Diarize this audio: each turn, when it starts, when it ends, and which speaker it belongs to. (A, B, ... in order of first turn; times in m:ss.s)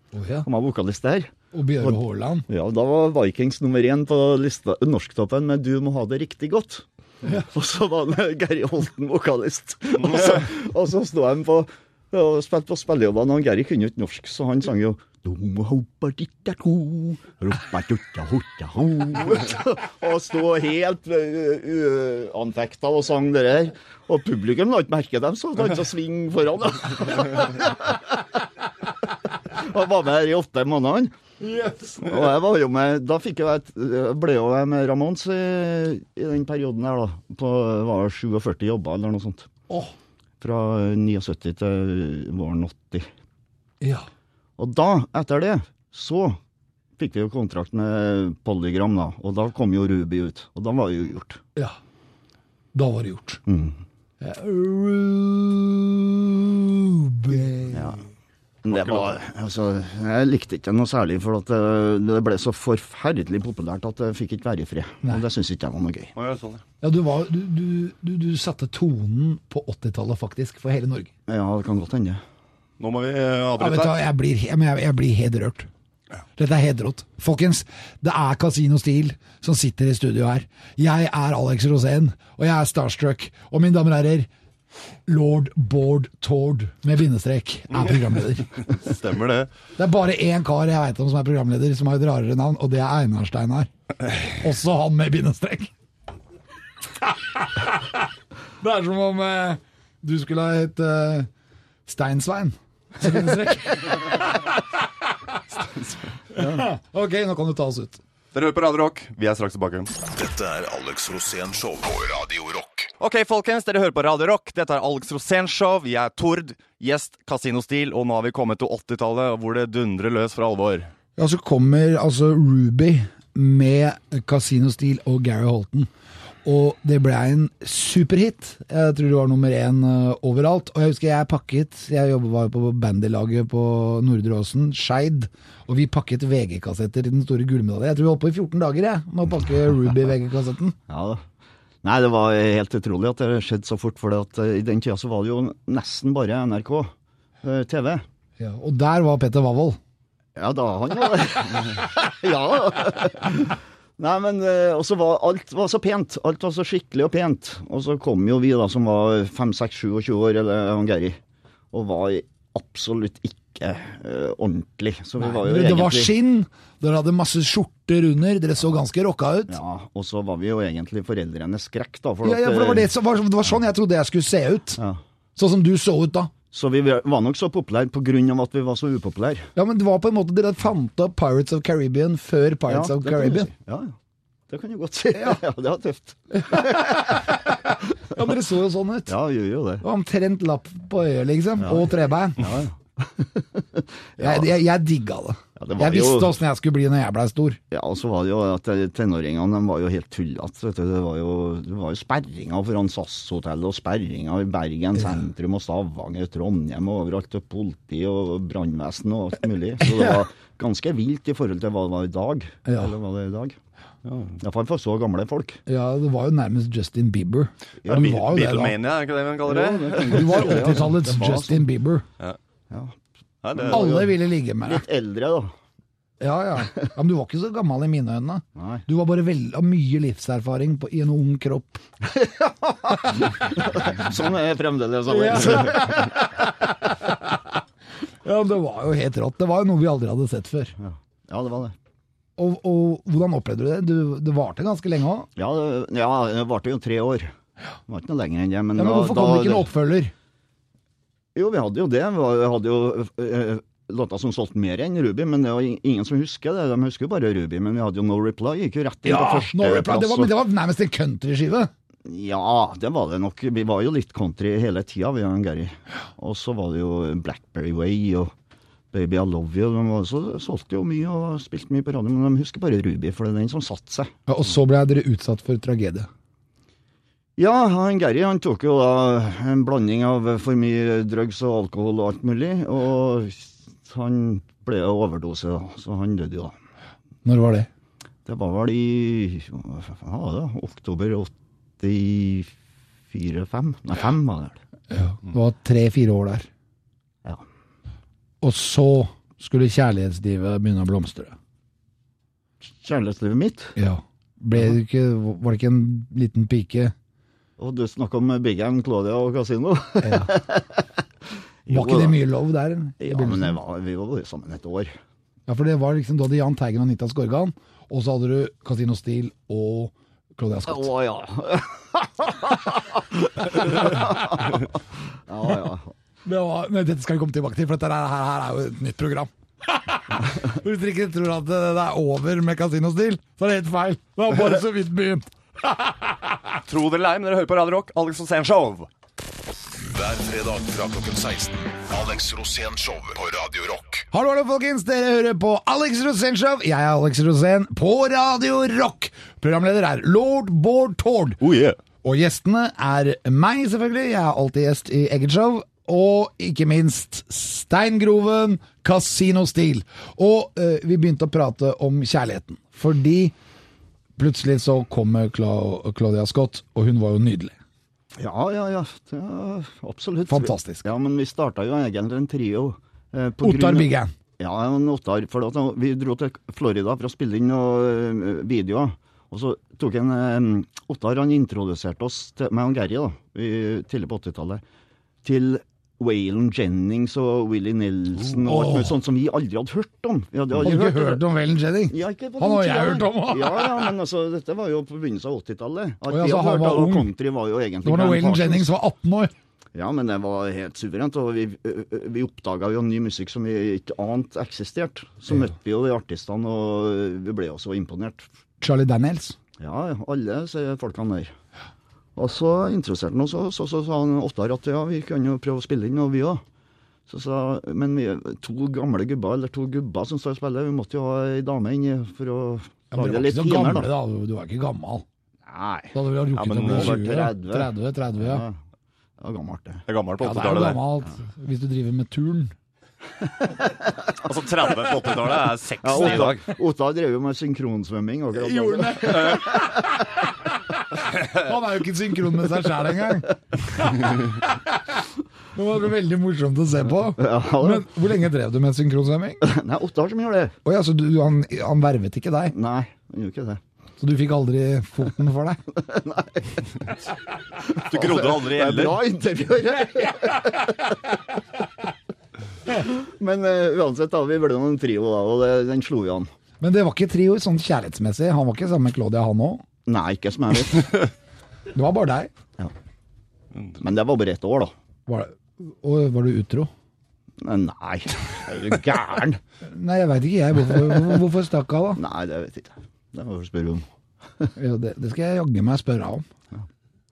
0:00.1-0:00.5 A
0:00.4-0:28.9 B
0:01.5-0:02.5 A
0:29.4-0:31.1 B
0:31.4-0:32.2 A
0:32.0-0:39.5 B
0:40.4-0:43.1 B
0:43.8-0:44.1 A
0:44.6-0:46.4 B
0:47.0-0:51.4 B
0:52.7-0:53.4 A
0:53.5-0:53.8 B
0:54.2-0:58.0 A
0:57.7-0:58.0 B
0:58.6-1:06.1 B
0:58.7-0:59.1 C
1:06.2-1:06.6 C
1:06.8-1:11.1 A
1:11.3-1:12.2 B
1:12.8-1:14.0 C
1:13.6-1:15.7 A
1:16.4-1:24.3 A
1:25.1-1:28.7 A
1:28.7-1:29.5 C
1:29.8-1:35.7 A
1:38.6-1:41.3 A
1:41.9-1:44.6 A
1:46.3-1:48.0 A
1:48.3-1:49.9 C
1:50.0-1:52.9 D
1:53.0-2:00.9 C
2:01.2-2:05.9 A
2:06.4-2:20.8 A
2:20.9-2:21.2 B
2:21.8-2:28.0 B
2:28.4-2:29.8 A
2:30.4-2:41.2 B
2:41.7-2:46.1 B
2:45.2-2:49.6 A
2:49.5-2:52.9 B
2:52.2-2:54.8 A
2:55.4-2:56.3 A
2:56.5-2:59.5 B
2:59.6-3:03.5 A
3:02.7-3:04.0 B
3:04.5-3:07.3 B
3:06.3-3:09.1 A
3:09.1-3:09.8 B
3:09.8-3:12.4 A
3:11.6-3:11.9 B
3:12.4-3:14.5 B
3:14.2-3:17.6 A
3:15.6-3:16.4 B
3:17.7-3:33.6 B
3:32.6-3:32.9 A
3:34.0-3:34.3 C
3:34.4-3:35.6 B
3:35.7-3:38.7 A
3:37.8-3:38.2 B
3:37.9-3:41.3 C
3:39.4-3:41.6 B
3:40.0-3:42.0 A
3:42.7-3:43.0 B
3:43.4-3:43.8 C
3:43.5-3:45.5 B
3:43.7-3:44.8 A
3:46.2-3:51.8 A
3:48.6-3:48.8 B
3:52.0-3:56.0 B
3:55.1-3:57.4 A
3:58.2-4:00.7 A
4:00.8-4:01.7 B
4:02.4-4:05.3 A
4:05.4-4:07.3 B
4:07.9-4:09.7 B
4:08.8-4:10.1 A
4:11.3-4:20.3 B
4:19.0-4:21.7 A
4:22.0-4:28.3 B
4:28.9-4:34.1 B
4:34.3-4:36.1 A
4:37.4-4:46.5 B
4:47.2-4:47.7 A
4:48.2-4:52.5 B
4:53.1-4:54.6 B
4:54.9-4:56.5 A
4:58.4-5:01.4 A
5:02.8-5:03.7 B
5:03.8-5:06.9 A
5:07.6-5:11.0 B
5:10.0-5:10.3 A
5:11.6-5:12.2 B
5:11.7-5:13.6 A
5:13.0-5:14.9 B
5:15.5-5:20.9 A
5:20.6-5:25.9 B
5:26.2-5:36.4 A
5:36.6-5:38.9 C
5:39.8-5:44.0 D
5:44.1-5:51.4 A
5:51.4-5:51.8 C
5:52.0-6:03.3 A
6:04.2-6:07.5 A
6:08.2-6:24.6 B
6:10.3-6:10.9 A
6:13.4-6:14.1 A
6:25.2-6:31.2 B
6:28.4-6:29.0 A
6:30.6-6:33.9 A
6:31.9-6:38.7 B
6:36.1-6:37.1 A
6:37.8-6:39.3 A
6:39.7-6:48.2 B
6:48.6-6:49.4 A
6:49.6-6:51.3 B
6:52.2-6:56.4 B
6:57.1-7:03.9 B
7:02.9-7:05.0 A
7:05.4-7:05.9 B
7:05.9-7:08.4 A
7:06.3-7:07.0 C
7:06.6-7:08.6 B
7:09.2-7:09.8 B
7:09.9-7:10.8 C
7:10.2-7:12.5 A
7:14.2-7:16.4 C
7:15.8-7:19.9 B
7:18.4-7:20.2 A
7:21.0-7:24.8 A
7:25.5-7:29.4 A
7:27.2-7:27.9 B
7:29.4-7:30.5 B
7:30.6-7:32.5 A
7:32.5-7:33.6 B
7:34.0-7:35.6 A
7:35.7-7:36.9 B
7:37.6-7:40.9 B
7:37.8-7:39.0 C
7:42.7-7:46.3 B
7:46.6-7:49.6 A
7:49.8-7:51.1 B
7:51.7-7:52.3 A
7:53.8-7:54.7 B
7:55.1-7:56.7 A
7:57.4-7:59.4 B
7:59.6-8:02.0 A
8:02.0-8:03.8 B
8:04.6-8:06.2 A